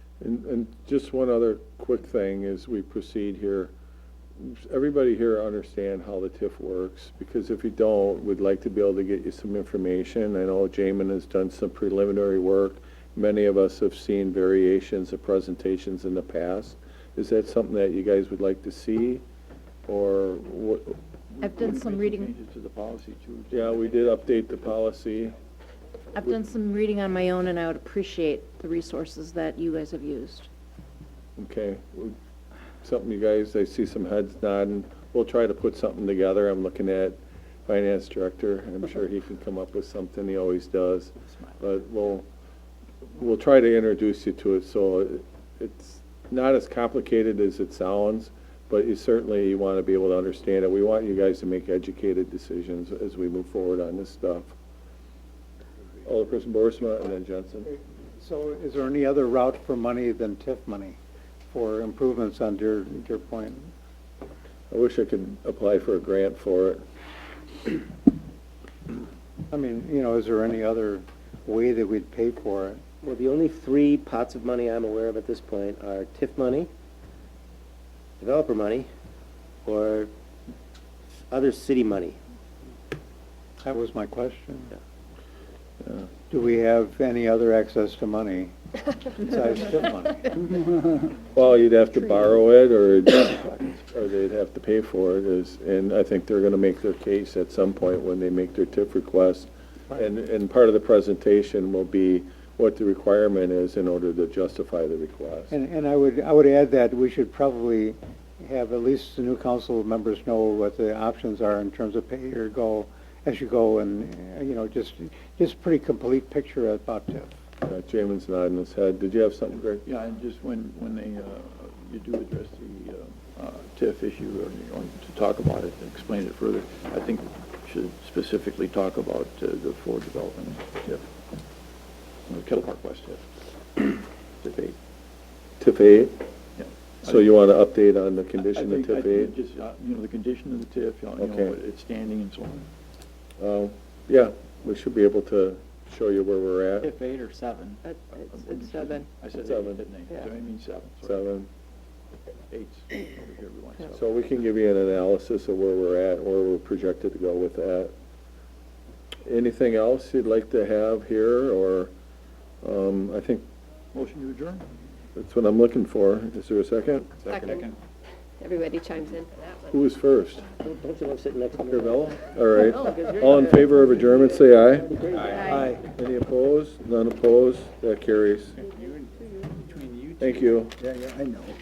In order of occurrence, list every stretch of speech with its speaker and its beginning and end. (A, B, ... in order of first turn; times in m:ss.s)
0:00.2-0:03.7 A
0:04.4-0:19.2 A
0:19.9-0:21.0 A
0:21.4-0:24.4 B
0:21.4-0:22.3 C
0:23.5-0:25.4 A
0:26.2-0:30.5 C
0:31.4-0:32.2 A
0:32.8-0:42.3 A
0:43.1-0:54.6 A
0:56.0-0:57.7 A
0:58.2-1:01.0 D
1:01.5-1:03.7 D
1:04.7-1:06.8 A
1:09.5-1:12.8 D
1:13.0-1:16.7 E
1:18.2-1:18.9 E
1:19.6-1:20.1 E
1:21.3-1:22.2 E
1:23.6-1:24.8 D
1:26.3-1:28.6 D
1:29.1-1:30.4 D
1:31.3-1:45.5 A
1:45.5-1:57.4 D
1:57.6-1:59.8 A
1:59.8-2:11.1 B
2:12.3-2:13.2 B
2:13.8-2:14.8 B
2:15.6-2:16.3 A
2:16.6-2:17.2 B
2:17.0-2:19.4 A
2:18.4-2:22.7 B
2:21.2-2:21.6 A
2:23.4-2:27.0 A
2:26.8-2:31.2 B
2:27.8-2:29.1 F
2:29.4-2:29.9 A
2:31.0-2:31.5 A
2:32.5-2:34.0 B
2:33.9-2:37.9 A
2:39.3-2:41.9 A
2:42.6-2:43.4 A
2:43.9-2:44.7 B
2:45.2-2:47.4 A
2:47.3-2:47.6 F
2:48.4-2:49.8 F
2:49.7-2:50.5 A
2:50.6-2:52.2 E
2:51.8-2:55.0 A
2:52.8-2:55.6 E
2:55.4-2:55.7 C
2:55.5-2:55.8 D
2:55.8-2:58.6 A
2:59.2-2:59.5 F
3:00.2-3:00.8 A